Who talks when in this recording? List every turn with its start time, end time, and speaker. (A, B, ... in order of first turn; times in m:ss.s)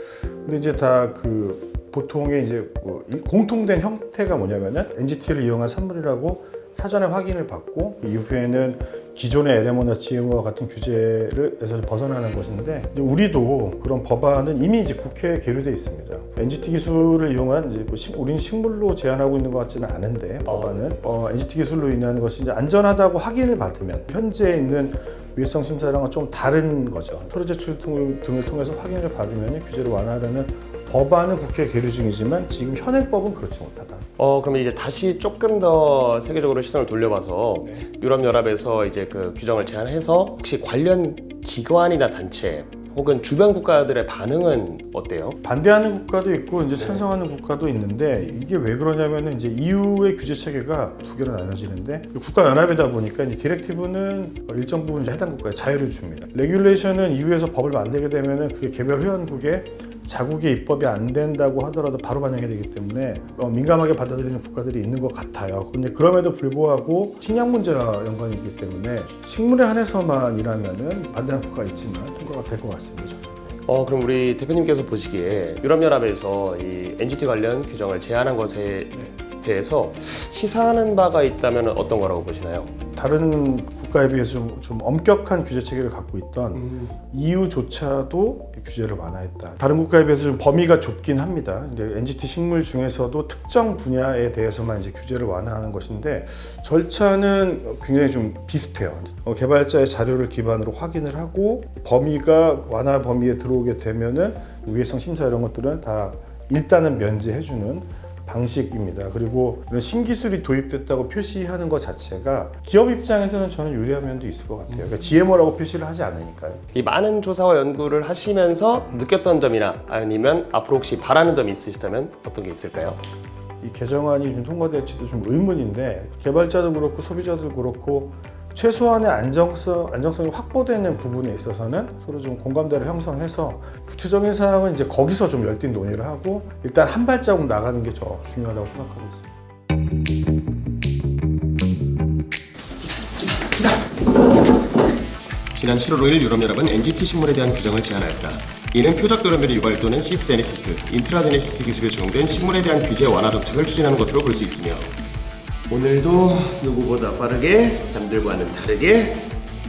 0:00.4-0:34.1 A
0:20.4-0:21.0 B
0:34.2-0:45.4 B
0:37.6-0:37.9 A
0:45.4-1:13.6 A
0:46.8-0:47.1 B
1:13.7-1:22.7 B
1:22.9-1:56.6 A
1:26.6-1:26.9 B
1:56.7-2:03.0 B
2:03.6-2:19.3 A
2:25.5-2:34.9 B
2:35.7-2:39.2 B